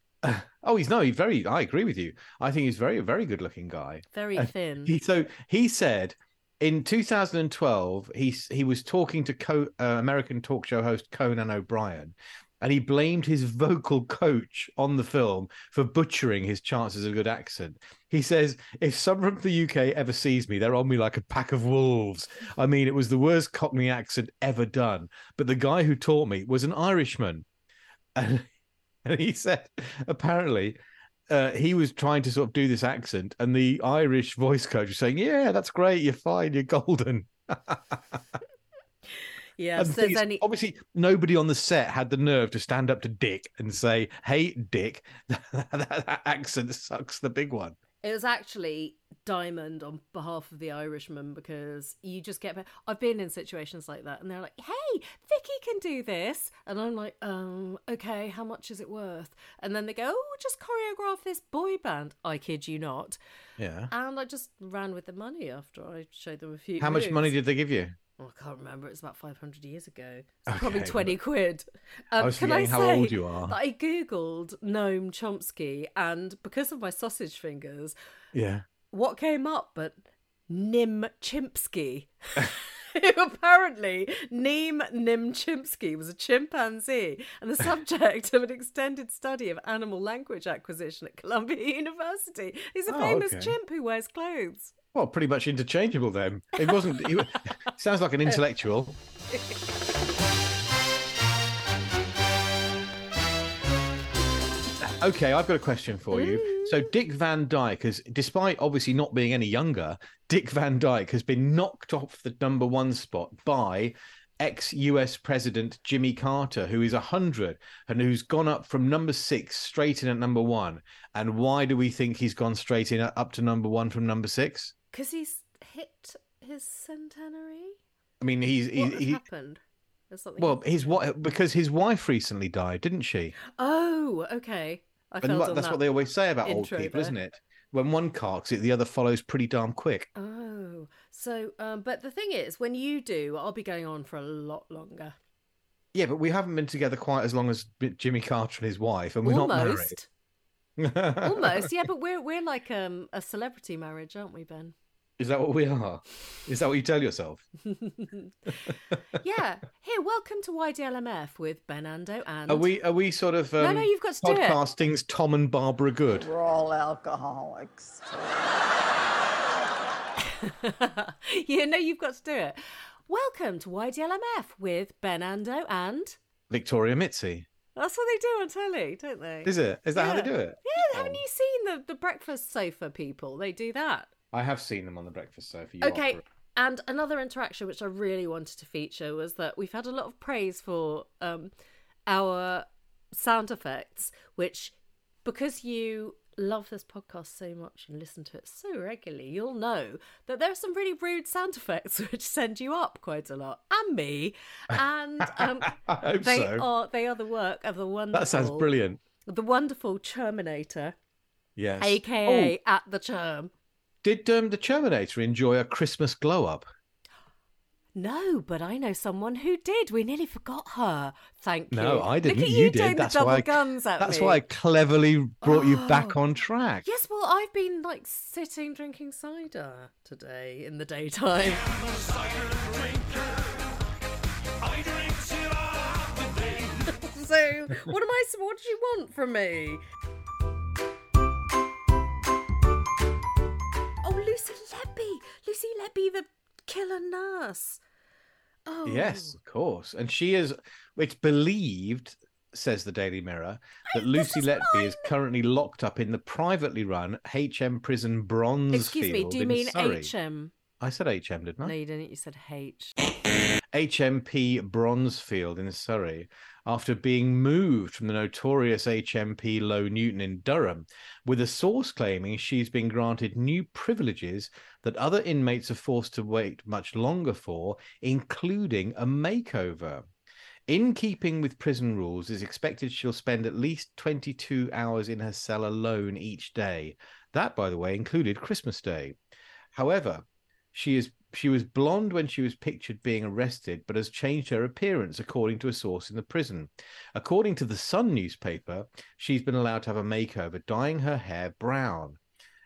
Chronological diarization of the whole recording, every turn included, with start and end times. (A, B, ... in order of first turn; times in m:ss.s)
0:00.2-0:27.4 A
0:04.1-0:04.9 B
0:28.2-0:28.5 A
0:29.0-0:38.4 A
0:39.6-0:40.4 B
0:39.8-0:47.8 A
0:48.0-1:03.2 B
1:03.6-1:03.9 A
1:03.9-1:07.3 B
1:06.8-1:07.9 A
1:08.2-1:17.9 B
1:10.5-1:11.2 A
1:12.1-1:13.6 A
1:18.3-1:18.6 A
1:18.9-1:34.7 B
1:32.9-1:33.6 A
1:34.9-1:39.0 A
1:36.6-1:37.0 B
1:44.8-2:04.7 A
1:46.1-1:46.9 B
2:04.9-2:07.8 B
2:08.2-2:09.2 A
2:08.8-2:11.0 B
2:10.4-2:13.4 A
2:13.4-2:15.8 B
2:15.2-2:20.1 A
2:16.4-2:17.1 B
2:20.1-2:25.1 B
2:25.9-2:30.0 A
2:29.2-2:30.1 B
2:30.8-2:31.7 A
2:31.2-2:34.7 B
2:35.2-2:37.4 A
2:37.8-2:38.3 B
2:39.2-2:42.7 B
2:42.5-2:46.3 A
2:43.6-2:44.6 B
2:46.1-2:48.5 C
2:50.3-2:56.2 B
2:56.5-2:57.5 A
2:57.8-3:04.1 B
2:59.4-3:01.2 A
3:04.3-3:06.2 A
3:05.8-3:11.5 B
3:12.1-3:28.7 B
3:24.7-3:26.6 A
3:28.1-3:29.0 A
3:29.3-3:31.0 B
3:31.6-3:32.5 A
3:31.8-3:33.5 B
3:34.0-3:36.6 A
3:37.9-3:44.4 B
3:41.7-3:46.8 A
3:45.4-3:46.2 B
3:46.8-3:51.8 B
3:56.2-3:59.8 B
4:04.0-4:07.8 B
4:08.6-4:09.4 B
4:08.8-4:20.1 A
4:13.9-4:15.1 B
4:18.7-4:20.5 B
4:20.8-4:21.7 A
4:21.6-4:23.0 B
4:23.7-4:40.1 A
4:40.7-4:49.2 A
4:49.7-5:02.2 A